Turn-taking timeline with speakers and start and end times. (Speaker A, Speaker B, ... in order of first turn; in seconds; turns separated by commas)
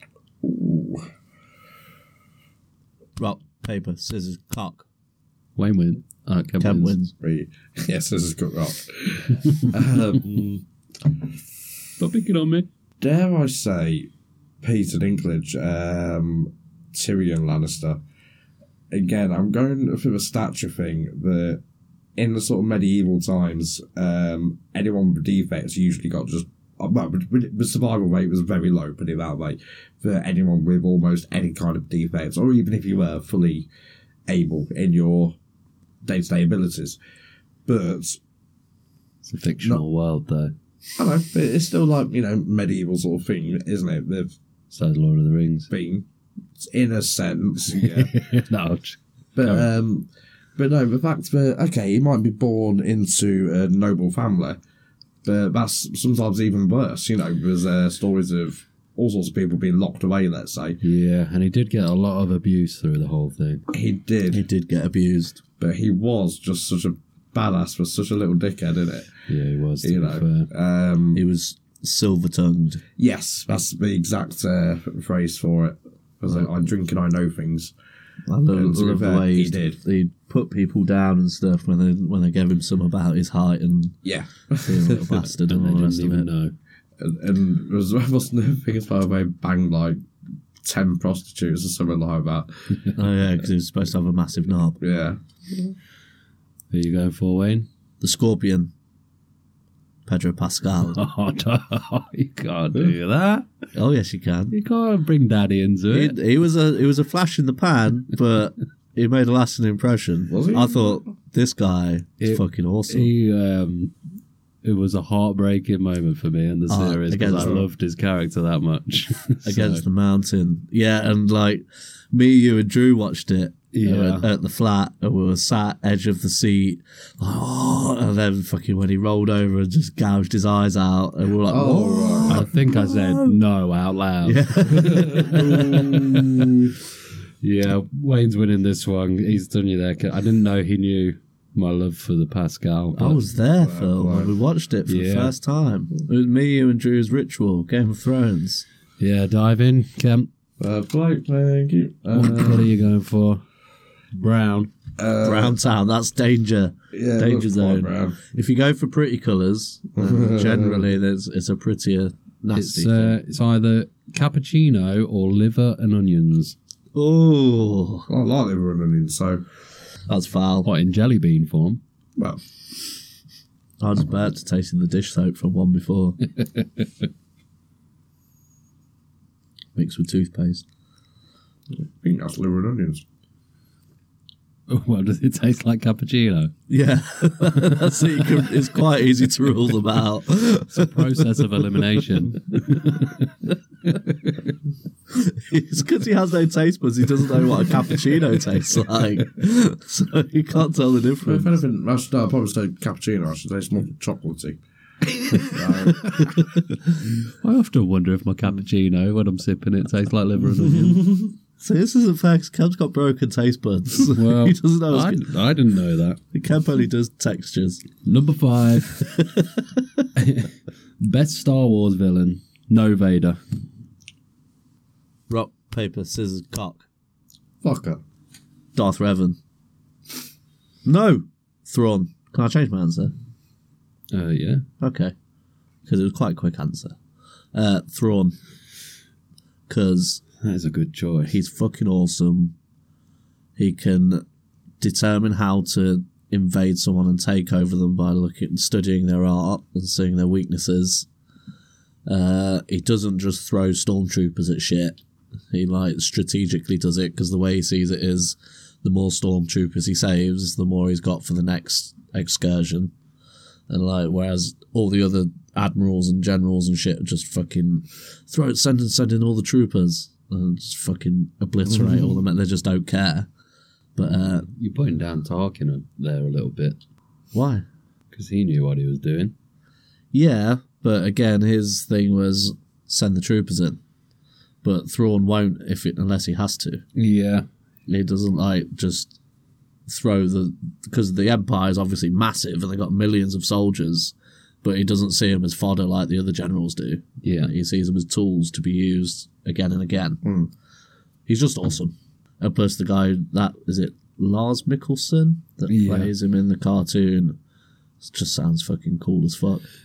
Speaker A: 0.4-1.1, Speaker B: 3.2-4.9, Speaker C: 5.6-7.0, Speaker B: 6.6-7.1, Speaker A: 7.2-11.3, Speaker C: 12.0-12.7, Speaker A: 13.0-14.1, Speaker A: 14.6-18.0, Speaker A: 18.9-21.6, Speaker A: 22.2-33.7, Speaker A: 34.3-35.4, Speaker A: 36.0-37.0, Speaker A: 37.7-38.2, Speaker C: 39.2-40.5, Speaker A: 41.0-44.4, Speaker C: 44.7-45.7, Speaker A: 45.7-46.0, Speaker A: 46.6-48.1, Speaker C: 47.7-49.7, Speaker A: 49.4-54.6, Speaker A: 55.2-60.8, Speaker C: 60.8-63.6, Speaker A: 63.7-64.4, Speaker B: 64.3-65.4, Speaker A: 65.6-69.2, Speaker C: 69.3-70.5, Speaker A: 69.8-71.2, Speaker B: 71.1-72.8, Speaker A: 73.0-77.7, Speaker B: 78.3-84.0, Speaker A: 78.5-79.8, Speaker A: 84.0-85.2, Speaker B: 84.6-86.3, Speaker C: 85.5-86.5, Speaker A: 87.0-90.0, Speaker A: 90.6-92.9, Speaker B: 93.0-94.8, Speaker A: 94.8-95.8, Speaker C: 96.7-97.7, Speaker B: 98.0-98.7, Speaker B: 100.1-101.0, Speaker C: 100.8-103.5, Speaker B: 103.8-104.5, Speaker C: 104.5-106.2, Speaker B: 105.9-113.1, Speaker A: 110.3-111.1, Speaker C: 112.2-113.9, Speaker C: 114.6-119.8, Speaker B: 116.7-117.6, Speaker A: 117.3-117.6, Speaker B: 119.4-133.4, Speaker C: 123.7-124.3, Speaker A: 131.5-132.5, Speaker C: 132.3-136.8, Speaker B: 134.2-136.1, Speaker A: 134.7-136.1, Speaker C: 137.4-143.2, Speaker B: 142.9-148.7, Speaker A: 143.6-144.3, Speaker C: 144.9-145.3, Speaker C: 149.0-150.3, Speaker A: 150.6-152.7, Speaker C: 152.1-153.4, Speaker C: 154.1-154.7, Speaker A: 155.0-155.6, Speaker B: 155.2-163.2, Speaker A: 156.9-158.3, Speaker A: 160.0-160.8, Speaker C: 162.6-166.6, Speaker B: 166.9-168.1, Speaker A: 168.1-169.4, Speaker B: 170.1-170.7, Speaker C: 170.6-171.8, Speaker B: 173.8-176.2, Speaker C: 176.3-177.1, Speaker B: 179.8-180.7, Speaker A: 181.8-183.0, Speaker C: 184.7-186.5, Speaker B: 186.7-191.7, Speaker C: 190.7-193.3, Speaker B: 192.5-193.1, Speaker B: 195.1-201.6, Speaker A: 201.2-204.6, Speaker A: 205.3-206.3, Speaker B: 205.8-206.9, Speaker C: 207.2-211.1, Speaker B: 211.6-215.3, Speaker C: 214.1-216.2, Speaker B: 216.3-217.8, Speaker C: 218.0-219.1, Speaker B: 218.9-220.1, Speaker C: 220.2-223.4, Speaker B: 225.3-226.9, Speaker A: 227.6-228.0, Speaker B: 228.8-229.4, Speaker B: 230.8-233.1, Speaker C: 234.1-234.6, Speaker B: 234.8-235.1, Speaker B: 235.9-237.0, Speaker B: 237.5-238.4, Speaker B: 239.7-240.2, Speaker C: 240.4-241.4, Speaker B: 241.3-242.5, Speaker B: 243.6-244.2, Speaker B: 244.8-251.1, Speaker B: 252.1-255.0, Speaker B: 255.5-262.9, Speaker B: 263.7-273.3, Speaker A: 271.7-272.1, Speaker B: 274.0-274.5, Speaker C: 274.5-276.8, Speaker B: 277.3-277.7, Speaker C: 278.1-279.3, Speaker B: 280.1-283.8, Speaker B: 284.6-286.8, Speaker C: 287.0-287.5, Speaker B: 287.9-289.2, Speaker B: 289.9-300.2, Speaker C: 297.2-297.5, Speaker A: 300.2-300.5, Speaker B: 301.3-307.4, Speaker C: 305.7-306.1, Speaker B: 308.0-309.6